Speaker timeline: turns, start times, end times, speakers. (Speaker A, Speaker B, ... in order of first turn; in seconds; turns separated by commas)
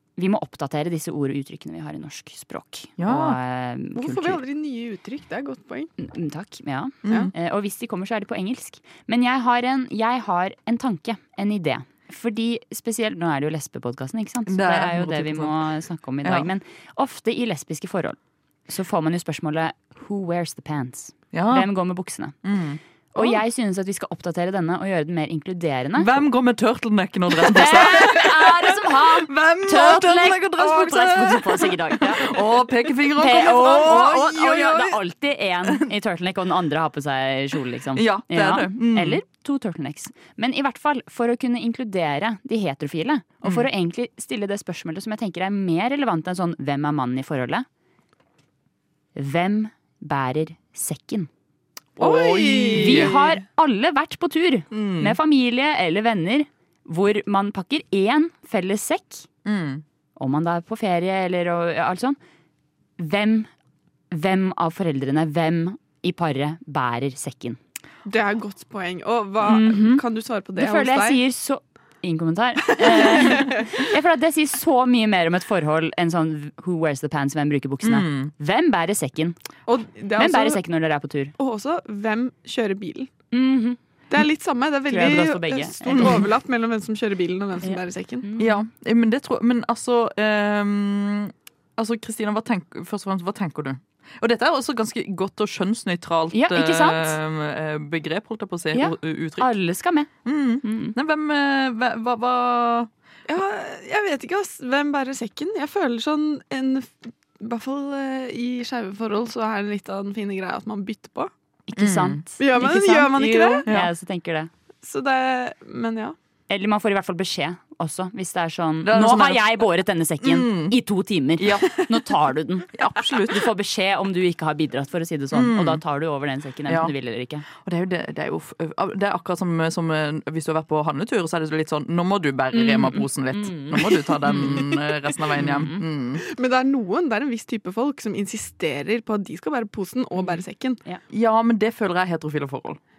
Speaker A: 0.2-4.4, Speaker B: 3.0-3.4, Speaker C: 4.0-5.9, Speaker A: 6.0-22.4, Speaker B: 7.0-7.3, Speaker B: 14.5-15.7, Speaker B: 21.3-21.7, Speaker B: 22.4-23.4, Speaker A: 23.1-26.1, Speaker B: 26.0-35.0, Speaker A: 27.4-32.4, Speaker A: 33.1-47.6, Speaker B: 38.0-39.2, Speaker A: 49.1-51.3, Speaker B: 52.0-53.1, Speaker C: 52.0-53.2, Speaker A: 52.8-59.3, Speaker B: 54.7-55.2, Speaker B: 59.5-59.8, Speaker A: 60.2-62.2, Speaker A: 63.0-63.5, Speaker A: 64.1-67.6, Speaker C: 68.1-71.2, Speaker A: 69.5-70.0, Speaker A: 70.6-79.4, Speaker C: 73.0-73.5, Speaker B: 77.8-78.3, Speaker C: 79.7-80.6, Speaker A: 80.2-81.3, Speaker C: 81.4-83.1, Speaker A: 83.3-83.8, Speaker C: 84.1-88.3, Speaker A: 84.9-86.2, Speaker B: 86.0-86.2, Speaker A: 87.6-88.6, Speaker B: 88.4-99.5, Speaker A: 96.3-97.2, Speaker A: 98.7-100.1, Speaker B: 100.2-102.9, Speaker A: 100.6-101.0, Speaker C: 103.3-111.3, Speaker A: 111.7-114.5, Speaker B: 111.8-112.2, Speaker C: 112.4-113.7, Speaker C: 114.8-116.2, Speaker A: 116.5-122.7, Speaker B: 118.8-119.5, Speaker B: 120.2-120.8, Speaker B: 121.4-121.8, Speaker B: 122.7-123.5, Speaker A: 123.2-127.5, Speaker B: 125.3-125.8, Speaker B: 126.7-126.9, Speaker B: 127.6-136.2, Speaker A: 132.5-134.8, Speaker A: 135.4-135.8, Speaker C: 136.2-140.8, Speaker A: 140.2-141.0, Speaker B: 141.1-142.8